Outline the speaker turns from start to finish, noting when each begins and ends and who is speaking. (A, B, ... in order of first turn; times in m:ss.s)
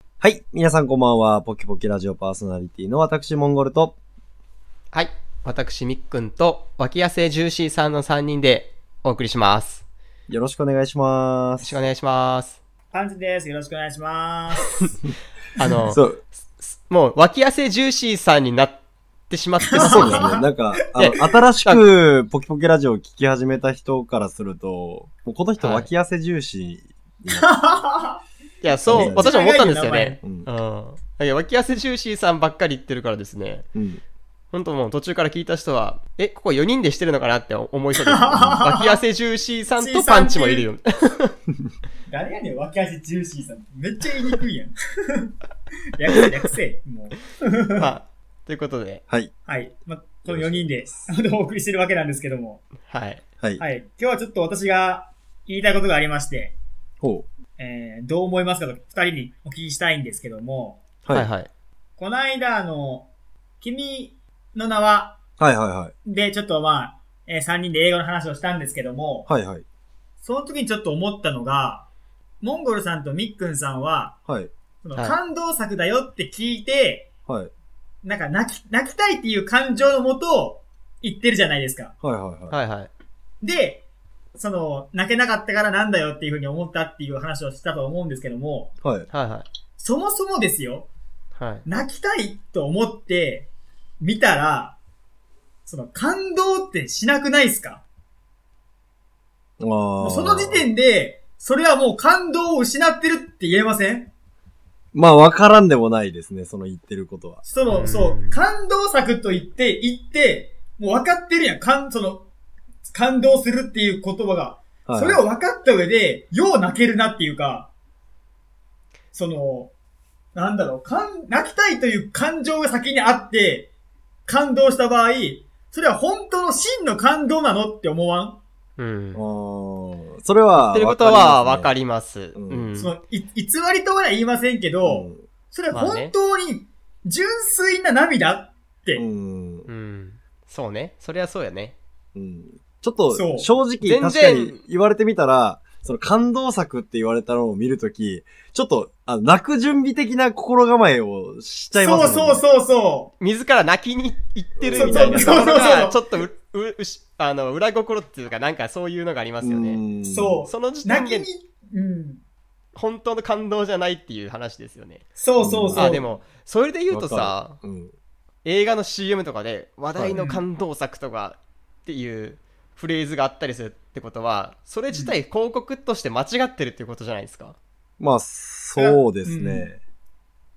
0:00.2-0:04.0 A
0:04.9-0:09.8 B
0:10.3-0:11.7 A
0:11.6-0:12.6 B
0:12.9-0:14.8 C
0:15.6-0:16.0 B
0:15.9-0:16.2 A
0:16.6-0:18.8 B
0:19.3-0:20.3 B
0:19.7-0:21.2 C
0:19.8-0:27.5 A
0:25.6-0:25.9 B
0:27.3-0:28.2 C
0:28.6-0:33.7 B
0:28.8-0:29.3 A
0:28.9-0:30.2 C
0:30.2-0:30.5 A
0:33.8-0:34.0 A
0:34.5-0:41.4 B
0:38.0-0:39.0 C
0:39.8-0:40.7 C
0:42.1-0:45.3 C
0:46.0-0:47.9 C
0:47.8-0:49.0 B
0:49.5-0:52.6 C
0:50.3-0:51.1 A
0:52.9-0:53.2 B
0:53.6-0:56.6 C
0:57.0-0:57.3 A
0:57.6-1:00.8 C
1:01.0-1:01.3 A
1:01.1-1:01.5 B
1:02.0-1:03.1 C
1:03.6-1:05.2 C
1:05.4-1:05.9 A
1:06.0-1:09.3 C
1:09.3-1:09.6 A
1:10.2-1:11.9 C
1:12.4-1:14.2 C
1:14.8-1:17.1 C
1:18.0-1:21.9 C
1:22.0-1:22.6 A
1:22.5-1:22.9 B
1:23.4-1:23.8 C
1:24.4-1:28.7 C
1:28.8-1:29.1 A
1:29.1-1:29.5 B
1:29.8-1:30.9 C
1:31.4-1:31.6 B
1:31.7-1:33.5 C
1:34.0-1:34.8 C
1:35.7-1:37.8 C
1:39.6-1:40.7 A
1:40.0-1:44.1 C
1:44.9-1:47.4 A
1:47.4-1:52.3 C
1:47.7-1:48.4 B
1:52.9-1:57.7 C
1:54.9-1:55.2 A
1:59.1-1:59.7 C
2:00.4-2:03.7 C
2:04.3-2:08.4 C
2:08.8-2:09.2 B
2:09.1-2:11.7 A
2:10.6-2:12.9 B
2:12.4-2:12.7 A
2:12.8-2:19.0 C
2:14.9-2:15.2 A
2:15.7-2:16.1 B
2:19.0-2:19.7 A
2:19.7-2:21.8 B
2:22.1-2:32.4 A
2:23.1-2:23.5 C
2:23.8-2:24.6 B
2:31.8-2:33.1 C
2:33.2-2:39.8 B
2:34.6-2:35.5 A
2:34.7-2:36.0 C
2:39.4-2:40.4 A
2:40.1-2:42.2 C
2:40.5-2:41.3 B
2:42.7-2:45.1 B
2:45.2-2:46.1 C
2:45.4-2:46.0 A
2:45.7-2:47.6 B
2:46.9-2:47.9 A
2:48.4-2:57.6 B
2:50.0-2:50.2 A
2:50.2-2:50.4 C
2:54.9-2:55.2 C
2:58.0-2:59.8 A
2:58.8-2:59.7 C